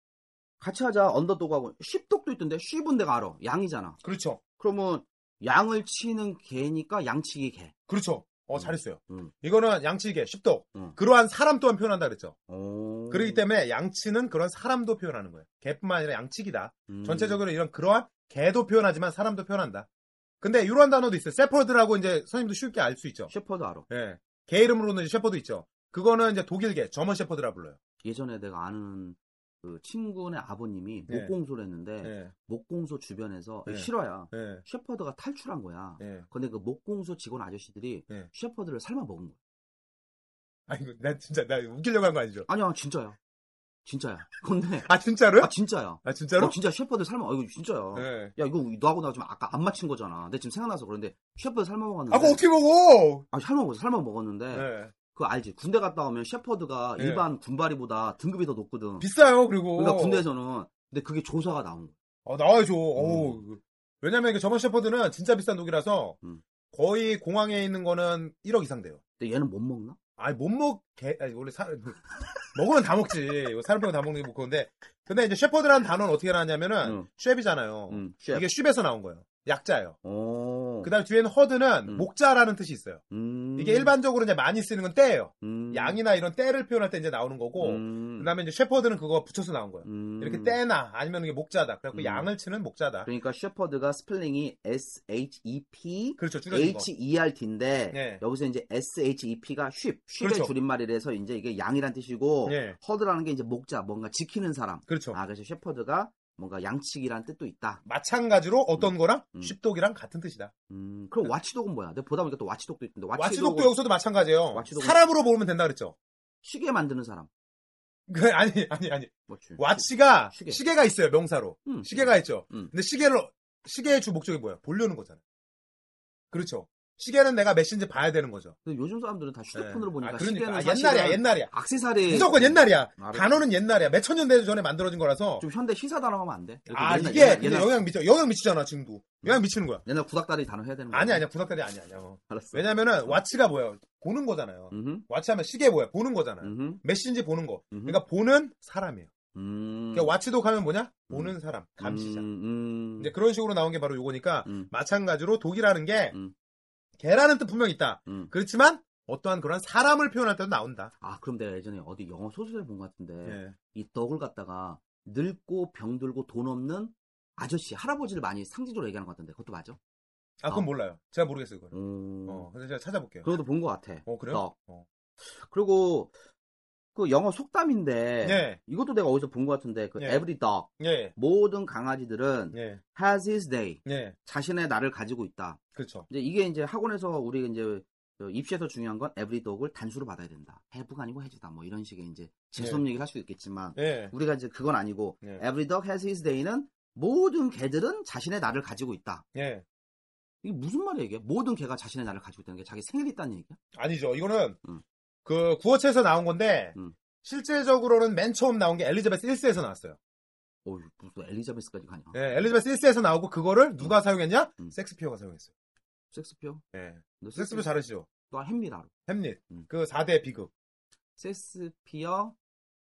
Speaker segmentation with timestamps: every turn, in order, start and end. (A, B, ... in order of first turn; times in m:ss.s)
0:00.6-0:04.0 A
0:04.0-0:04.4 B
0:04.6-0:07.7 A
0:07.9-0:12.3 B
0:08.5-0:09.3 A
0:12.5-0:13.4 A
0:13.1-0:19.9 B
0:16.9-0:17.4 A
0:20.4-0:23.3 B
0:23.3-0:23.9 A
0:23.9-0:27.8 B
0:28.0-0:39.4 A
0:32.0-0:32.3 B
0:33.7-0:34.6 B
0:36.0-0:36.3 B
0:40.7-0:42.5 B
0:42.5-0:43.2 A
0:43.8-0:52.4 A
0:44.8-0:45.5 B
0:46.0-0:46.6 B
0:47.9-0:48.3 B
0:52.1-0:53.2 B
0:53.3-0:59.1 A
0:54.5-0:54.9 B
0:57.0-0:57.2 B
0:59.0-1:00.2 B
0:59.7-1:01.9 A
1:02.2-1:06.2 B
1:03.0-1:03.4 A
1:06.7-1:09.0 B
1:09.2-1:10.0 A
1:10.2-1:20.0 B
1:16.8-1:17.1 A
1:17.9-1:18.4 A
1:20.0-1:20.9 A
1:20.8-1:23.0 B
1:23.1-1:23.9 A
1:23.6-1:33.1 B
1:25.4-1:26.0 A
1:27.6-1:28.3 A
1:29.8-1:30.6 A
1:31.9-1:32.3 A
1:33.0-1:47.8 A
1:36.2-1:36.9 B
1:37.9-1:38.2 B
1:40.2-1:40.5 B
1:42.4-1:42.8 B
1:44.9-1:45.2 B
1:47.8-1:50.5 B
1:48.8-1:49.6 A
1:50.7-1:53.7 A
1:53.1-1:55.9 B
1:54.5-1:55.0 A
1:56.4-1:57.3 A
1:58.1-2:05.2 B
1:59.3-2:00.6 A
2:01.6-2:02.7 A
2:06.3-2:08.5 B
2:08.6-2:13.4 A
2:09.5-2:11.5 B
2:12.1-2:15.4 B
2:15.4-2:17.7 A
2:16.7-2:19.8 B
2:19.2-2:21.2 A
2:20.9-2:29.1 B
2:22.3-2:23.2 A
2:24.7-2:25.0 A
2:26.4-2:26.8 A
2:27.7-2:28.0 A
2:29.3-2:30.1 A
2:29.9-2:32.2 B
2:31.1-2:33.1 A
2:33.0-2:36.1 B
2:34.4-2:34.7 A
2:37.0-2:40.9 B
2:41.0-2:49.8 A
2:43.2-2:43.6 B
2:50.4-2:51.7 B
2:51.7-2:52.5 A
2:52.2-2:53.3 B
2:53.2-2:54.5 A
2:54.0-2:54.8 B
2:55.2-2:56.1 A
2:56.9-3:19.2 A
2:58.2-2:58.6 B
3:00.0-3:00.2 B
3:00.8-3:01.1 B
3:02.5-3:02.8 B
3:03.8-3:04.1 B
3:05.7-3:06.1 B
3:12.6-3:12.8 B
3:13.8-3:14.1 B
3:19.3-3:19.6 B
3:20.4-3:23.6 A
3:23.7-3:24.6 B
3:25.2-3:30.0 B
3:30.6-3:32.5 A
3:32.1-3:35.5 B
3:36.1-3:36.6 A
3:36.7-3:38.1 B
3:37.2-3:37.7 A
3:38.2-3:38.9 A
3:39.1-3:40.5 B
3:41.2-3:42.3 A